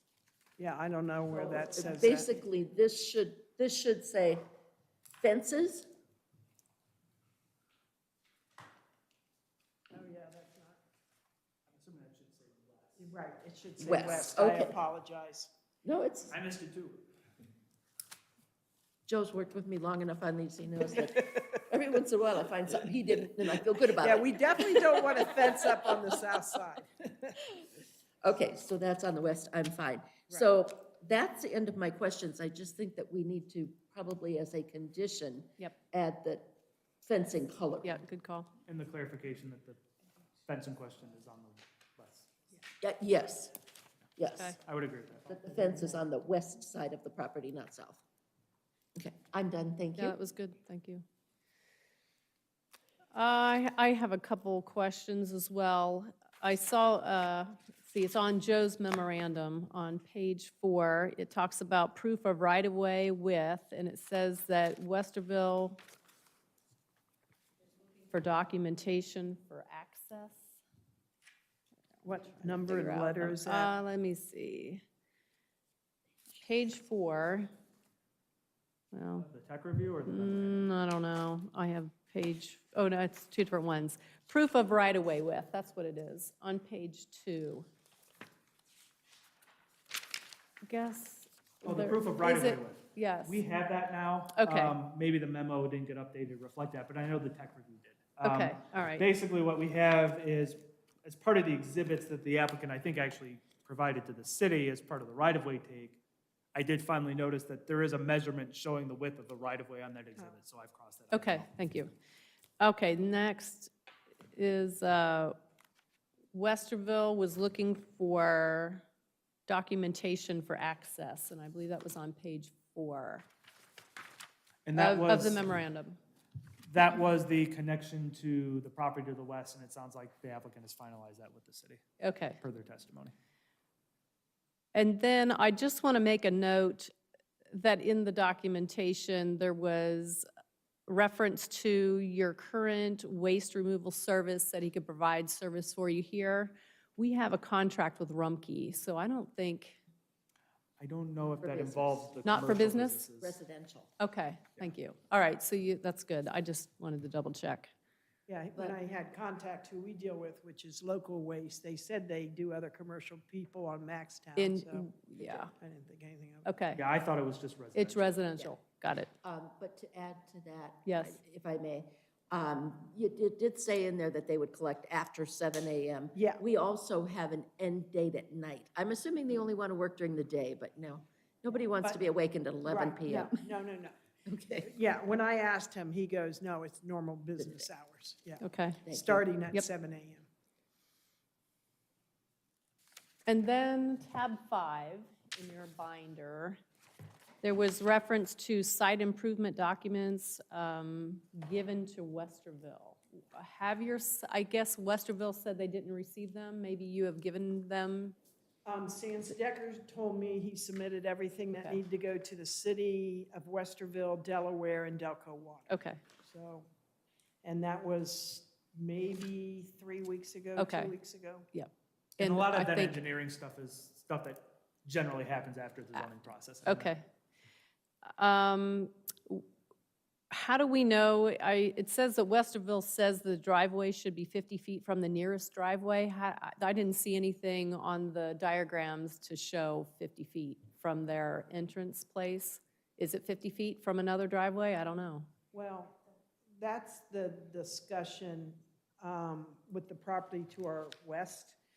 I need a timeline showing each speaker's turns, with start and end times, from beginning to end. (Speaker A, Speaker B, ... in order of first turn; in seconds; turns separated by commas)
Speaker A: 0.6-2.3, Speaker B: 1.7-4.4, Speaker B: 5.2-5.9, Speaker A: 9.9-10.8, Speaker C: 11.7-13.0, Speaker A: 13.0-15.5, Speaker B: 13.8-14.7, Speaker B: 15.8-16.4, Speaker C: 16.3-17.1, Speaker B: 19.1-25.0, Speaker A: 24.0-26.9, Speaker B: 28.2-38.0, Speaker D: 37.8-38.5, Speaker C: 38.6-39.8, Speaker C: 40.5-42.3, Speaker B: 42.8-43.5, Speaker B: 44.2-44.6, Speaker C: 44.6-45.8, Speaker B: 45.3-48.0, Speaker B: 49.0-50.2, Speaker D: 50.0-51.0, Speaker D: 53.1-65.8, Speaker D: 68.1-70.4, Speaker A: 72.0-73.7, Speaker D: 72.4-74.8, Speaker D: 76.3-77.5, Speaker D: 78.9-79.2, Speaker C: 79.2-80.7, Speaker D: 80.0-87.7, Speaker D: 90.7-93.4, Speaker C: 91.6-106.0, Speaker D: 94.3-94.8, Speaker D: 98.2-99.1, Speaker C: 106.5-111.5, Speaker D: 111.1-111.9, Speaker D: 112.6-113.7, Speaker D: 114.3-115.3, Speaker D: 116.3-118.8, Speaker D: 119.5-123.2, Speaker C: 124.7-125.5, Speaker D: 124.7-126.0, Speaker C: 126.7-131.8, Speaker D: 132.0-132.4, Speaker C: 132.4-133.1, Speaker D: 134.7-136.9, Speaker D: 137.5-140.2, Speaker D: 140.9-149.8, Speaker C: 150.8-153.3, Speaker B: 151.4-152.2, Speaker D: 152.2-153.1, Speaker B: 153.2-153.9, Speaker D: 154.0-157.7, Speaker A: 158.3-166.5, Speaker D: 164.4-165.5, Speaker D: 166.4-166.8, Speaker C: 166.8-168.1, Speaker D: 167.7-169.1, Speaker B: 169.2-183.5, Speaker D: 170.8-171.2, Speaker A: 176.1-176.4, Speaker A: 182.6-184.0, Speaker B: 184.2-184.7, Speaker A: 184.6-190.2, Speaker B: 187.4-187.6, Speaker D: 188.4-188.8, Speaker B: 188.8-189.3, Speaker D: 193.3-196.6, Speaker D: 197.4-208.2, Speaker A: 208.6-215.7, Speaker D: 215.7-216.0, Speaker A: 216.2-216.7, Speaker A: 217.4-221.5, Speaker D: 220.6-220.9, Speaker D: 221.5-223.0, Speaker C: 222.2-226.9, Speaker D: 226.6-227.0, Speaker D: 228.2-229.4, Speaker D: 230.3-245.3, Speaker A: 245.5-246.0, Speaker A: 246.6-251.6